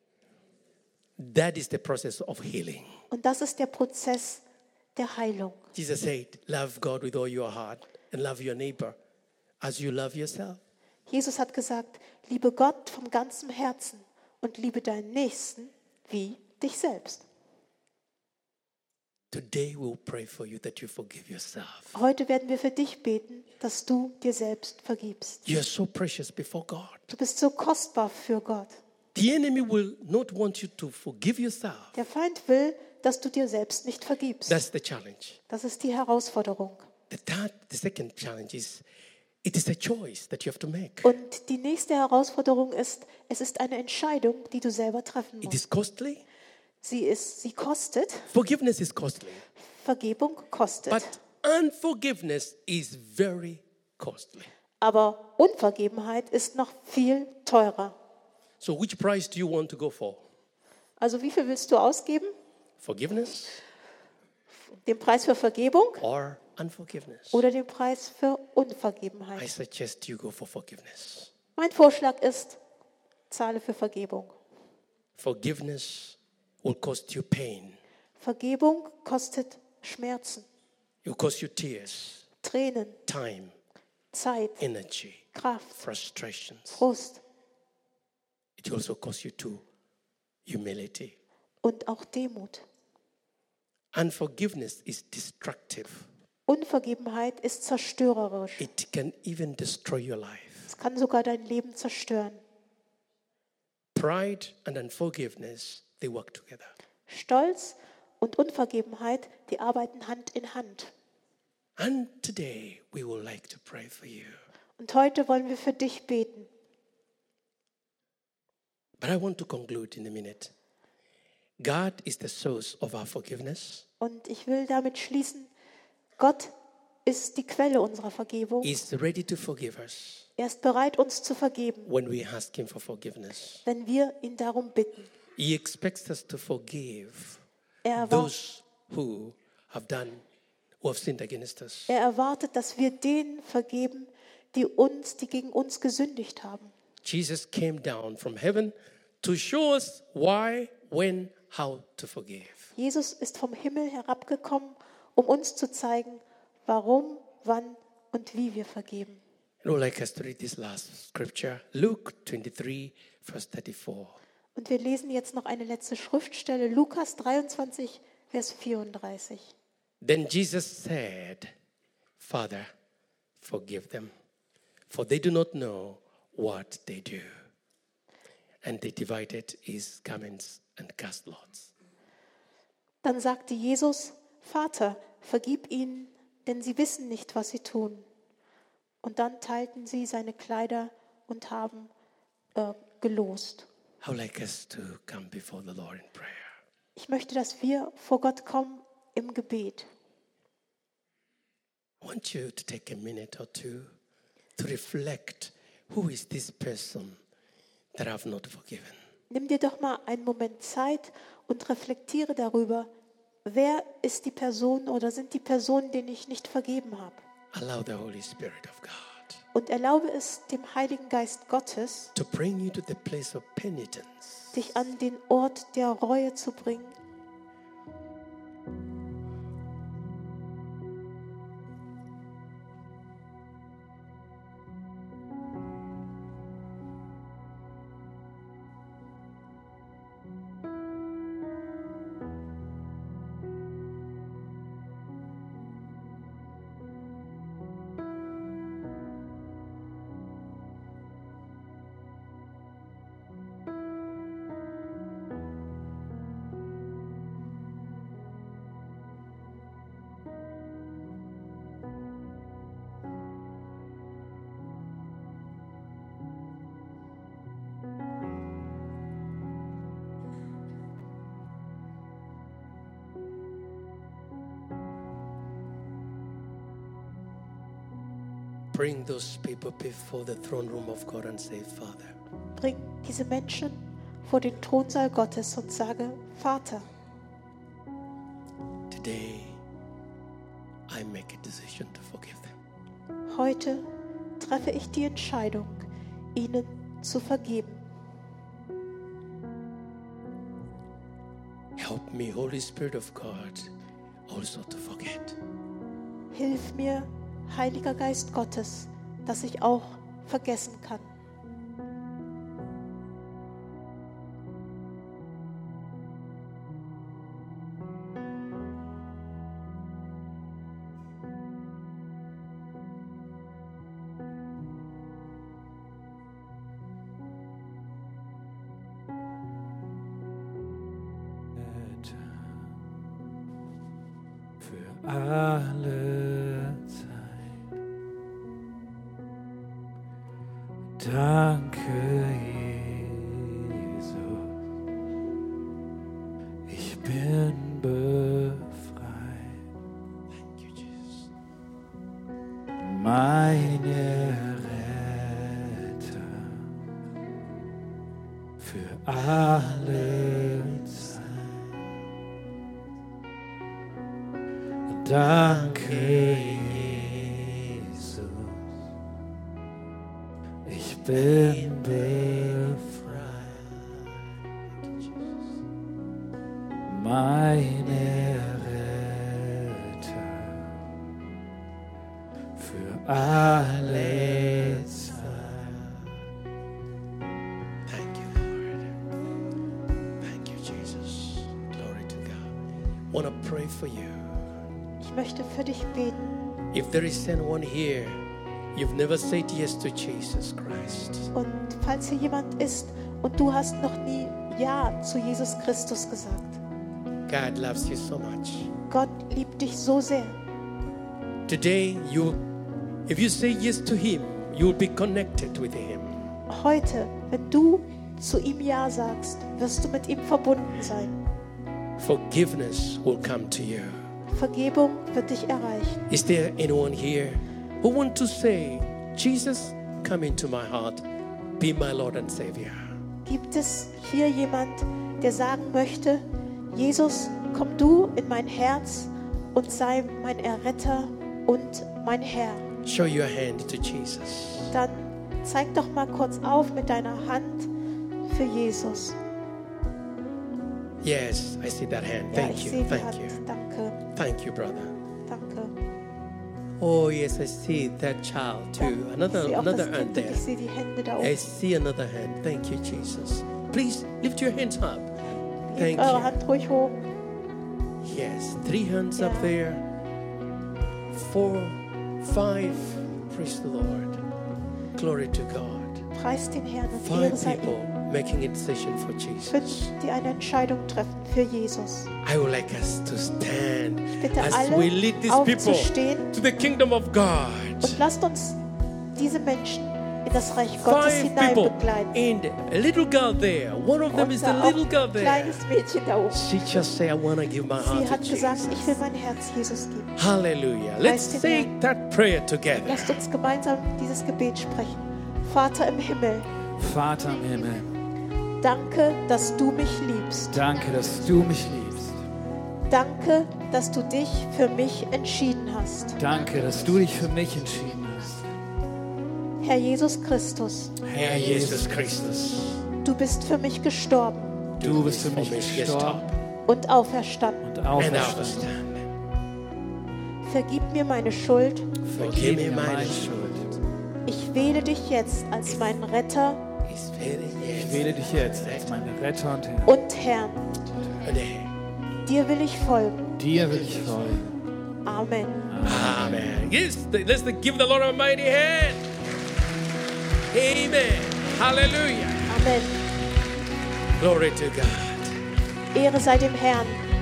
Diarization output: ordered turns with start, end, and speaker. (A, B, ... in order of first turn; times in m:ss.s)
0:01.2-0:03.0 A
0:03.1-0:04.4 B
0:05.0-0:05.7 B
0:05.7-0:09.0 A
0:09.6-0:10.6 A
0:11.1-0:17.2 B
0:19.3-0:22.0 A
0:21.9-0:25.4 B
0:25.5-0:27.1 A
0:27.1-0:28.7 B
0:29.2-0:32.0 A
0:32.0-0:34.6 B
0:34.5-0:35.4 A
0:35.5-0:36.9 B
0:37.1-0:38.8 A
0:39.4-0:41.1 A
0:41.0-0:45.6 B
0:45.4-0:46.2 A
0:46.8-0:48.3 B
0:48.3-0:49.4 A
0:49.6-0:51.1 B
0:50.9-0:54.5 A
0:54.8-0:58.0 B
0:58.6-1:00.2 A
1:01.0-1:02.3 B
1:02.8-1:03.6 A
1:04.8-1:06.0 B
1:06.0-1:07.4 A
1:07.3-1:09.5 B
1:09.4-1:11.3 A
1:11.6-1:12.6 B
1:13.3-1:14.3 B
1:15.2-1:17.8 A
1:18.2-1:20.5 B
1:21.0-1:22.3 A
1:22.4-1:23.0 B
1:23.1-1:23.6 A
1:24.1-1:24.6 B
1:24.6-1:26.8 A
1:25.4-1:25.8 B
1:26.7-1:27.2 B
1:28.6-1:29.6 A
1:30.5-1:31.2 A
1:31.6-1:32.6 B
1:33.9-1:36.1 A
1:36.5-1:38.6 B
1:38.6-1:40.7 A
1:40.7-1:42.4 B
1:44.0-1:46.7 A
1:47.1-1:50.9 B
1:51.8-1:54.4 A
1:54.8-1:56.5 B
1:59.0-2:00.5 A
2:01.6-2:03.9 A
2:04.0-2:05.5 B
2:06.2-2:06.5 B
2:07.0-2:08.7 B
2:08.6-2:10.3 A
2:10.4-2:11.9 B
2:11.8-2:13.6 A
2:13.7-2:15.1 B
2:15.4-2:17.4 A
2:17.8-2:18.3 B
2:18.0-2:20.2 A
2:20.8-2:21.9 A
2:21.9-2:26.7 B
2:27.0-2:32.7 A
2:32.8-2:39.2 B
2:39.6-2:44.2 A
2:44.6-2:49.4 B
2:50.0-2:51.5 A
2:52.2-2:52.7 A
2:53.4-2:54.1 A
2:54.9-2:57.3 A
2:58.6-3:01.7 A
3:03.0-3:08.1 B
3:09.0-3:11.9 B
3:12.6-3:13.7 B
3:14.0-3:16.5 A
3:17.0-3:19.9 B
3:22.0-3:23.9 A
3:24.6-3:27.2 A
3:28.0-3:29.0 A
3:29.3-3:32.9 B
3:33.4-3:37.2 B
3:37.5-3:39.4 A
3:39.5-3:42.1 B
3:42.1-3:44.6 A
3:44.5-3:47.0 B
4:38.7-4:42.2 A
4:42.6-4:46.8 B
4:48.9-4:49.6 A
4:50.9-4:52.5 A
4:53.3-4:53.8 B
4:54.4-4:57.8 B
5:01.8-5:03.7 A
5:04.3-5:05.4 A
5:06.3-5:11.1 B
5:31.6-5:32.7 C
5:34.6-5:37.6 C
5:41.0-5:44.5 C
5:46.7-5:49.6 C
5:50.4-5:51.3 A
5:52.8-5:56.7 C
5:58.6-6:01.5 C
6:04.9-6:08.7 C
6:10.6-6:13.2 C
6:16.9-6:20.7 C
6:22.6-6:25.5 C
6:23.5-6:25.6 A
6:27.9-6:28.9 A
6:30.2-6:32.5 A
6:33.1-6:34.3 A
6:35.0-6:36.2 B
6:36.7-6:38.2 A
6:38.7-6:41.3 A
6:41.3-6:46.6 B
6:47.3-6:48.7 A
6:48.9-6:50.4 B
6:51.5-6:52.4 A
6:53.1-6:56.3 A
6:56.5-7:01.2 B
7:02.0-7:04.0 A
7:04.3-7:06.0 B
7:06.1-7:11.0 A
7:11.6-7:12.9 A
7:13.2-7:22.6 B
7:22.8-7:24.7 A
7:24.7-7:27.7 B
7:28.3-7:29.2 B
7:31.0-7:33.4 A
7:32.3-7:34.0 B
7:34.2-7:35.0 A
7:35.3-7:35.7 B
7:36.8-7:40.4 A
7:38.8-7:41.4 B
7:41.2-7:45.1 A
7:45.7-7:47.0 B
7:45.8-7:46.3 A
7:48.0-7:49.8 A
7:49.2-7:49.5 B
7:51.1-7:54.2 A
7:55.0-7:56.1 A
7:56.1-7:57.8 B
7:57.0-7:59.9 A
7:59.5-8:02.1 B
8:02.2-8:08.0 A
8:04.2-8:06.3 B
8:07.8-8:08.6 B
8:09.2-8:12.1 B
8:10.8-8:15.6 A
8:14.1-8:16.5 B
8:16.3-8:19.0 A
8:17.8-8:20.1 B
8:20.2-8:23.2 A
8:21.0-8:21.7 B
8:22.8-8:26.5 B
8:26.8-8:27.9 C
8:28.6-8:30.6 B
8:30.5-8:32.2 C
8:32.9-8:36.2 B
8:36.2-8:38.5 C
8:36.6-8:37.1 A
8:39.6-8:40.9 B
8:41.0-8:42.5 C
8:41.1-8:42.8 A
8:43.0-8:44.7 B
8:44.8-8:46.4 A
8:44.8-8:46.3 C
8:46.7-8:47.6 B
8:47.6-8:48.7 C
8:48.0-8:49.1 A
8:50.4-8:51.9 B
8:52.0-8:53.8 C
8:52.2-8:53.5 A
8:54.3-8:56.6 B
8:56.8-8:59.1 A
8:57.8-9:00.0 C
8:59.9-9:00.7 B
9:01.2-9:01.7 A
9:02.2-9:03.4 B
9:03.4-9:04.6 C
9:05.0-9:05.7 B
9:05.7-9:06.7 C
9:05.8-9:09.1 A
9:10.5-9:12.6 A
9:12.5-9:13.0 B
9:14.2-9:15.4 A
9:15.9-9:17.0 B